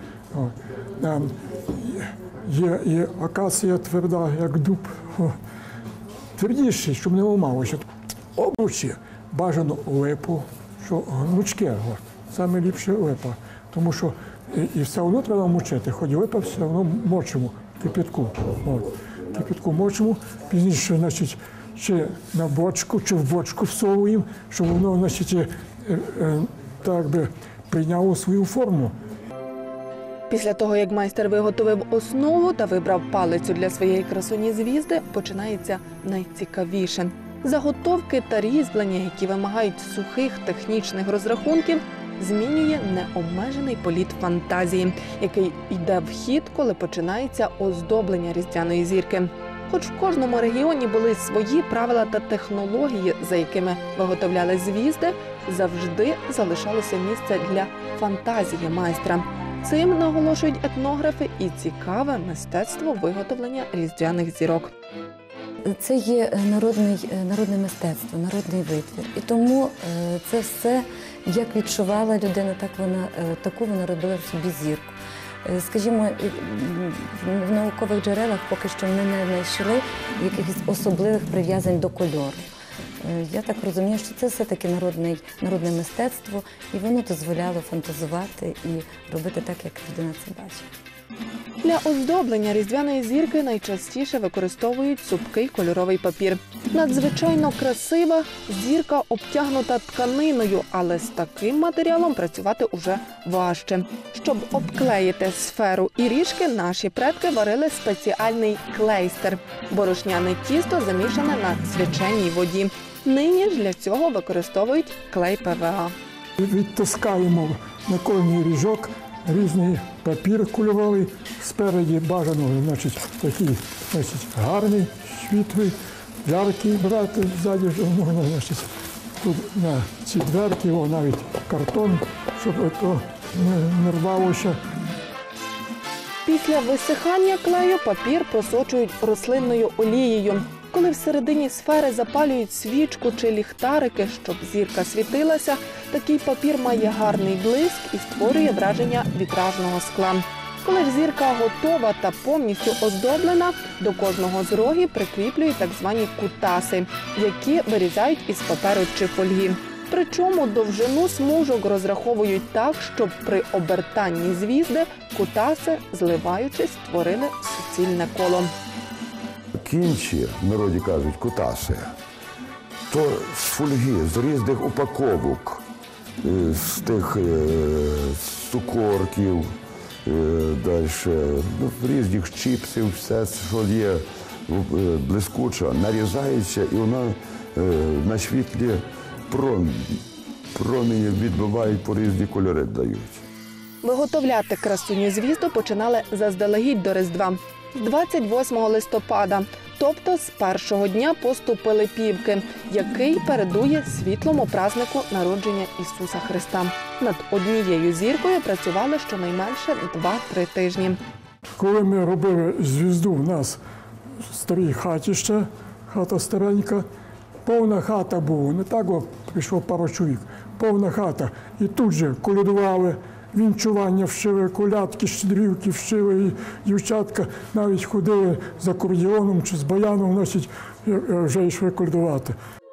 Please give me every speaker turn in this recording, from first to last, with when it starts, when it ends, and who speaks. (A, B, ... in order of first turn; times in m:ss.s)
0:00.3-0:05.4 A
0:06.4-0:07.8 A
0:08.4-0:28.9 A
0:30.3-1:04.7 B
1:05.7-1:22.4 C
1:23.0-1:30.7 C
1:31.6-1:55.9 B
1:56.4-2:08.7 A
2:09.2-2:14.6 A
2:16.2-2:48.5 B
2:49.5-2:51.9 D
2:52.9-2:55.6 D
2:56.2-2:59.5 D
3:00.0-3:10.0 D
3:10.5-3:13.2 D
3:13.8-3:31.0 B
3:31.6-3:33.6 A
3:34.2-3:36.8 A
3:37.4-3:52.4 A